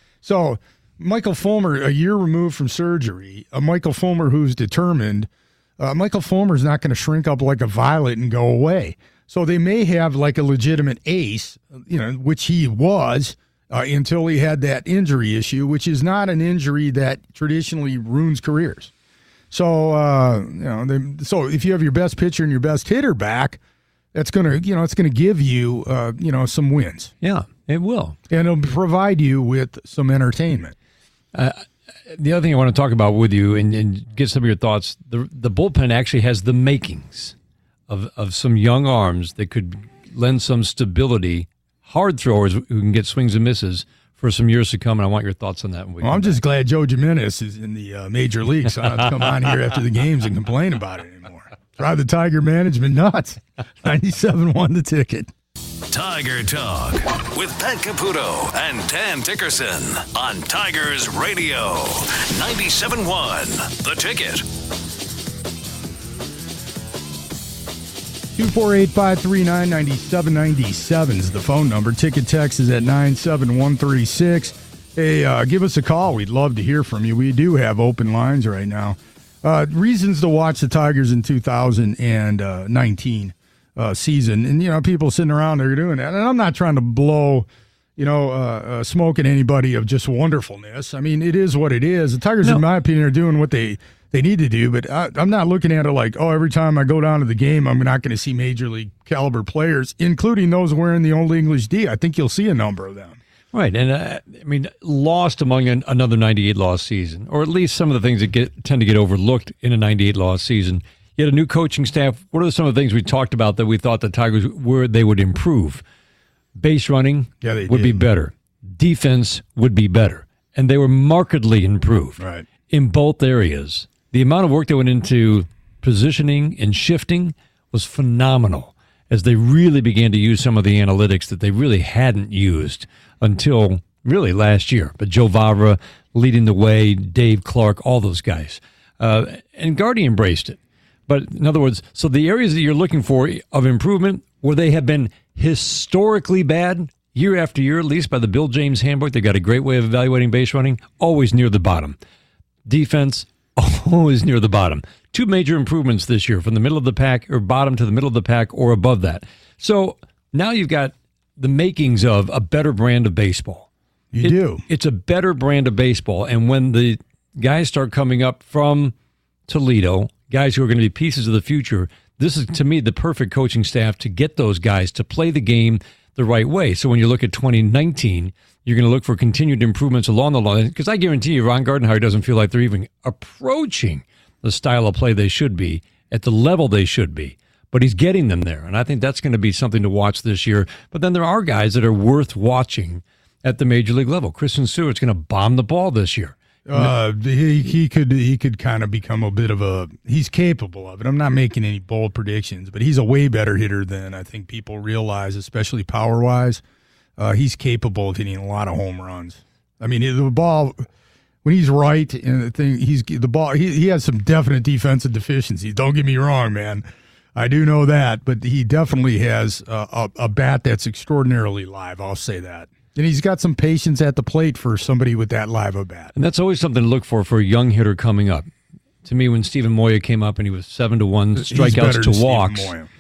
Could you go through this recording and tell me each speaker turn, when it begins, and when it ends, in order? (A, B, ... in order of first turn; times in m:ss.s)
0:00.2-0:18.9 A
0:19.5-0:23.6 A
0:24.1-0:27.1 A
0:27.2-0:28.2 B
0:28.3-0:30.8 A
0:31.3-0:37.4 B
0:37.9-0:46.4 B
0:46.0-0:55.3 A
0:55.9-1:04.4 C
1:08.4-1:43.2 A
1:43.5-1:55.8 B
1:56.6-2:32.0 B
1:57.4-1:58.0 A
2:02.2-2:02.5 A
2:32.6-2:48.9 B
2:44.1-2:44.6 A
2:49.5-3:16.9 B
3:16.7-3:26.6 A
3:27.2-3:30.9 A
3:31.4-3:46.1 A
3:46.1-3:48.5 B
3:49.0-3:52.7 B
3:51.4-3:52.9 A